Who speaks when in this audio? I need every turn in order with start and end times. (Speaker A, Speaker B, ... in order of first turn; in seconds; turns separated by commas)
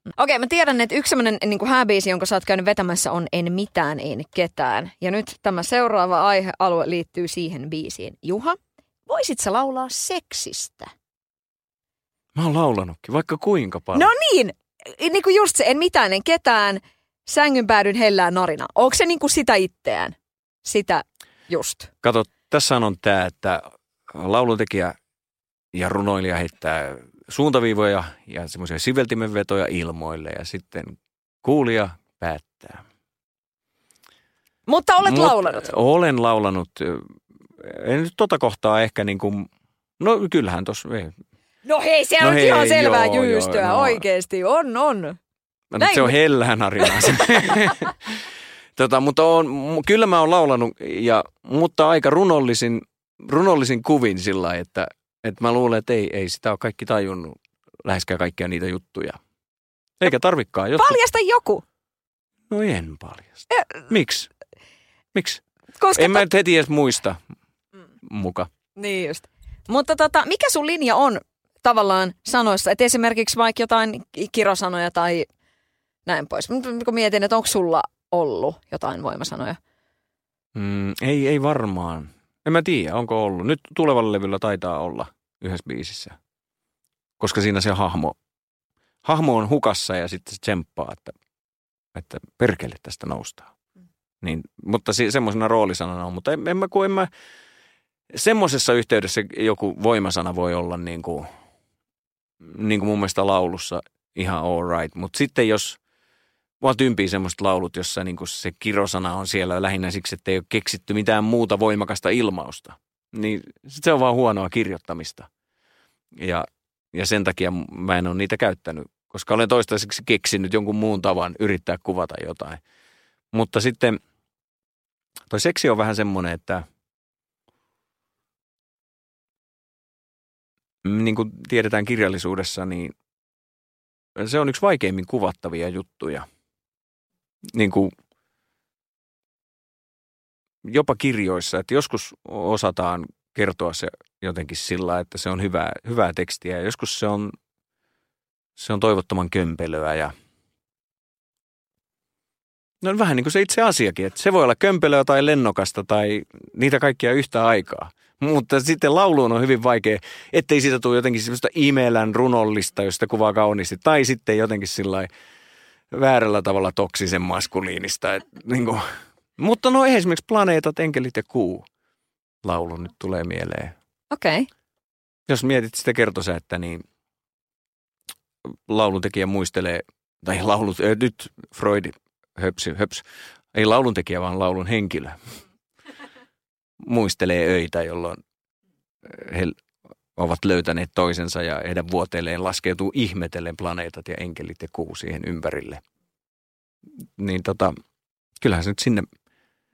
Speaker A: 0.2-10.9, Speaker B: 12.3-14.1, Speaker A: 13.9-21.9, Speaker B: 22.0-24.9, Speaker B: 25.7-32.8, Speaker A: 34.7-35.7, Speaker B: 35.0-39.5, Speaker B: 40.0-41.1, Speaker A: 41.6-45.2, Speaker B: 42.2-44.0, Speaker B: 45.7-48.2, Speaker A: 45.8-46.1, Speaker A: 46.8-47.8, Speaker B: 48.8-59.2, Speaker B: 60.0-61.0, Speaker A: 60.8-61.6, Speaker B: 62.5-64.3, Speaker A: 63.5-63.7, Speaker B: 65.1-65.4, Speaker A: 65.8-66.2, Speaker B: 65.9-67.2, Speaker B: 68.0-68.5, Speaker A: 68.8-75.3, Speaker A: 76.0-79.6, Speaker B: 80.5-86.2, Speaker B: 87.2-88.2, Speaker B: 89.0-91.1, Speaker B: 91.9-93.5, Speaker B: 94.2-97.1, Speaker B: 98.1-101.3, Speaker B: 102.4-105.8, Speaker B: 106.6-115.3, Speaker B: 116.2-122.6, Speaker B: 123.3-124.0, Speaker B: 125.3-126.7, Speaker B: 130.8-132.9, Speaker B: 134.2-136.2, Speaker B: 137.5-137.9, Speaker B: 140.6-147.3, Speaker B: 148.6-150.1, Speaker B: 152.8-165.1, Speaker B: 165.9-168.8, Speaker B: 169.4-171.7, Speaker B: 172.4-173.7, Speaker A: 174.1-174.5, Speaker B: 175.3-176.8, Speaker B: 178.4-185.2, Speaker B: 186.8-188.2, Speaker B: 189.0-189.6, Speaker B: 190.2-195.8, Speaker B: 197.0-197.8, Speaker B: 198.4-199.1